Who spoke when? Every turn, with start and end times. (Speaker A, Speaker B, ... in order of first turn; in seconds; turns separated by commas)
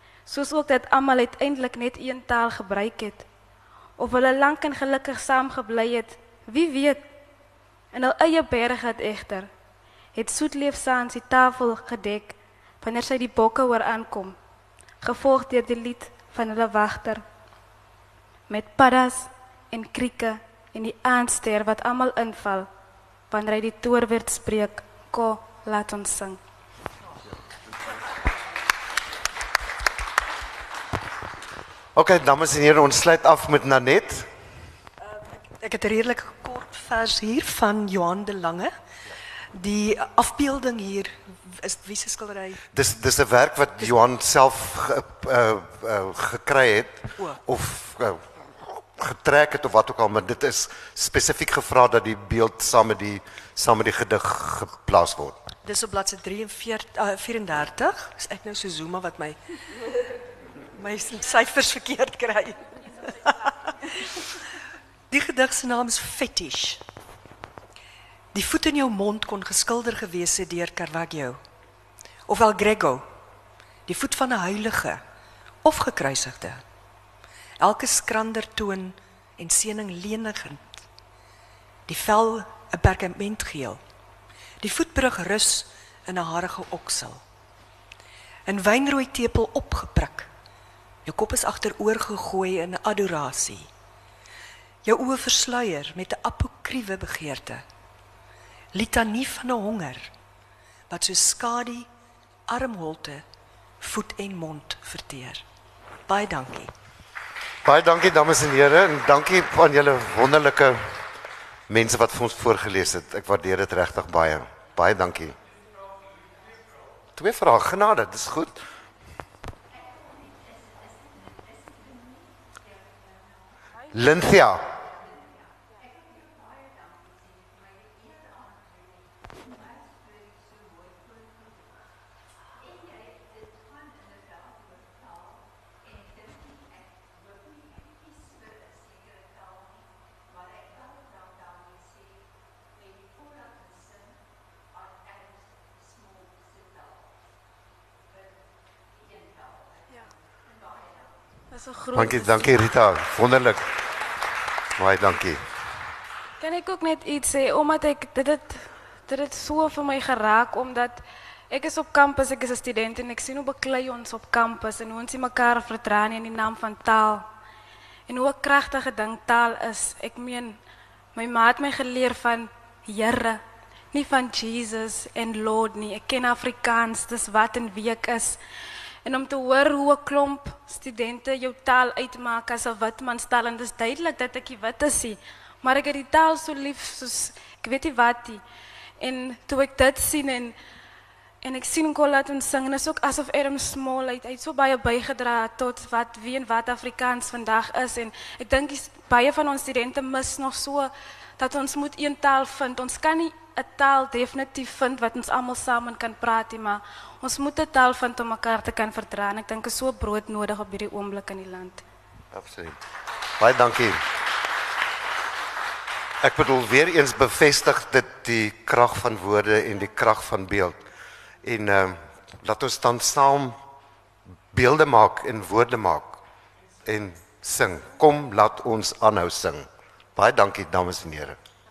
Speaker A: 0.3-3.2, Speaker A: 4.0-7.0, Speaker A: 7.9-9.5, Speaker A: 10.1-14.3, Speaker A: 15.0-17.2, Speaker A: 18.5-22.7, Speaker A: 23.3-26.4, Speaker B: 31.9-34.3, Speaker C: 35.6-38.7, Speaker C: 39.5-42.6, Speaker B: 42.7-55.4, Speaker C: 55.6-59.4, Speaker C: 60.8-64.2, Speaker C: 65.1-66.8, Speaker C: 68.3-71.4, Speaker C: 72.3-73.0, Speaker C: 73.8-75.0, Speaker C: 75.6-76.6, Speaker C: 77.6-80.8, Speaker C: 81.9-83.8, Speaker C: 84.6-87.2, Speaker C: 88.5-90.3, Speaker C: 91.0-93.7, Speaker C: 94.8-97.6, Speaker C: 98.7-100.1, Speaker C: 100.9-101.9, Speaker C: 102.5-103.2, Speaker C: 103.8-105.4, Speaker C: 106.1-106.7, Speaker B: 107.6-111.0, Speaker B: 111.7-115.3, Speaker B: 117.1-118.6, Speaker B: 123.9-124.8, Speaker A: 151.5-152.7, Speaker B: 151.9-153.7, Speaker B: 154.8-155.4, Speaker A: 156.4-167.2, Speaker A: 168.1-170.6, Speaker A: 171.1-173.4, Speaker A: 173.9-178.4, Speaker A: 179.0-188.4, Speaker A: 189.0-190.6, Speaker A: 191.4-211.8, Speaker B: 212.3-212.8, Speaker B: 213.4-214.0, Speaker B: 216.2-220.8, Speaker B: 221.4-223.6, Speaker B: 224.5-226.2, Speaker B: 226.8-231.4